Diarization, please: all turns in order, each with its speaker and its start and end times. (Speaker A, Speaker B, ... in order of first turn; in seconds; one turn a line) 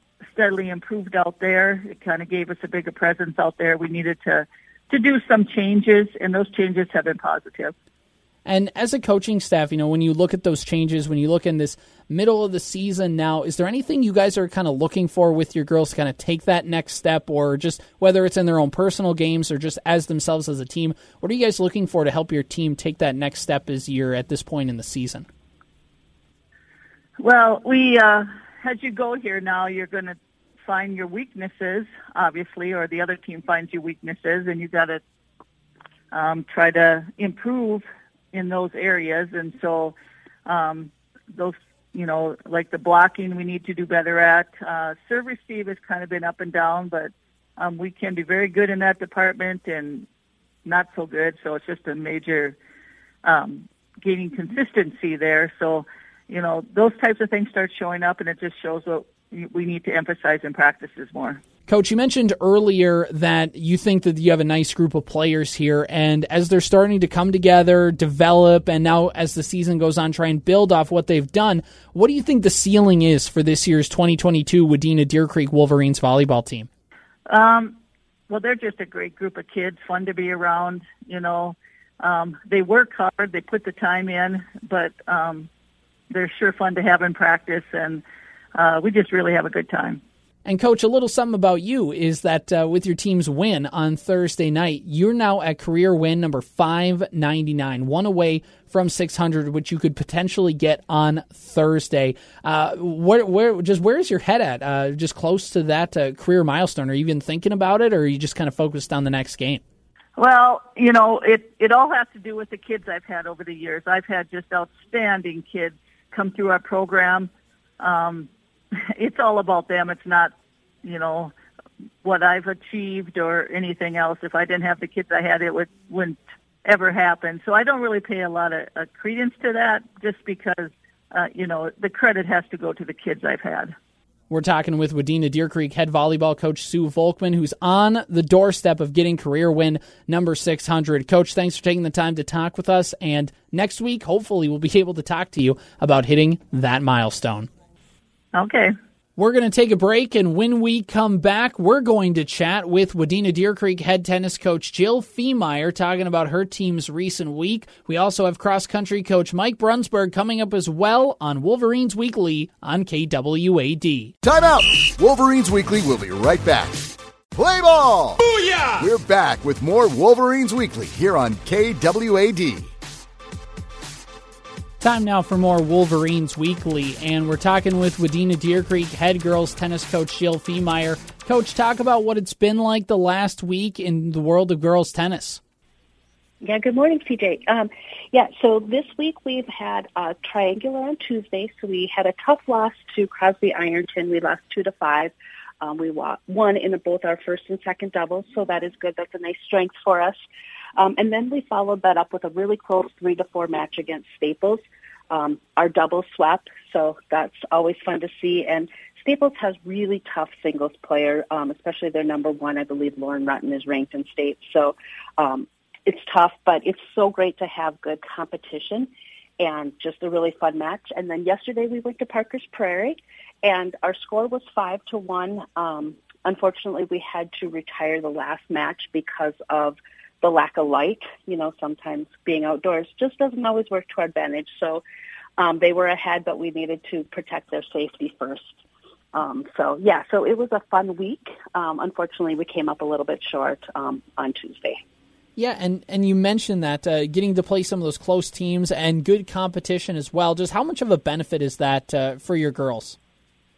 Speaker A: 0.3-7.7
Speaker B: 8.4-25.3
Speaker A: 27.2-30.1
Speaker A: 30.6-35.0
Speaker A: 36.1-39.9
Speaker A: 40.5-50.0
Speaker A: 50.6-52.5
Speaker A: 53.2-61.4
Speaker B: 61.7-76.7
Speaker A: 77.3-77.8
Speaker A: 78.3-85.5
Speaker A: 86.1-88.0
Speaker A: 88.6-90.0
Speaker B: 90.4-109.6
Speaker A: 110.2-118.3
Speaker A: 119.0-120.3
Speaker A: 120.8-121.3
Speaker A: 122.0-133.7
Speaker B: 134.3-147.5
Speaker A: 148.3-148.7
Speaker B: 149.2-164.1
Speaker C: 164.2-168.2
Speaker B: 168.2-168.8
Speaker C: 168.8-172.7
Speaker B: 174.8-185.4
Speaker D: 186.4-200.2
Speaker D: 200.8-234.8
Speaker D: 235.4-238.6
Speaker D: 239.1-244.8
Speaker B: 245.3-253.0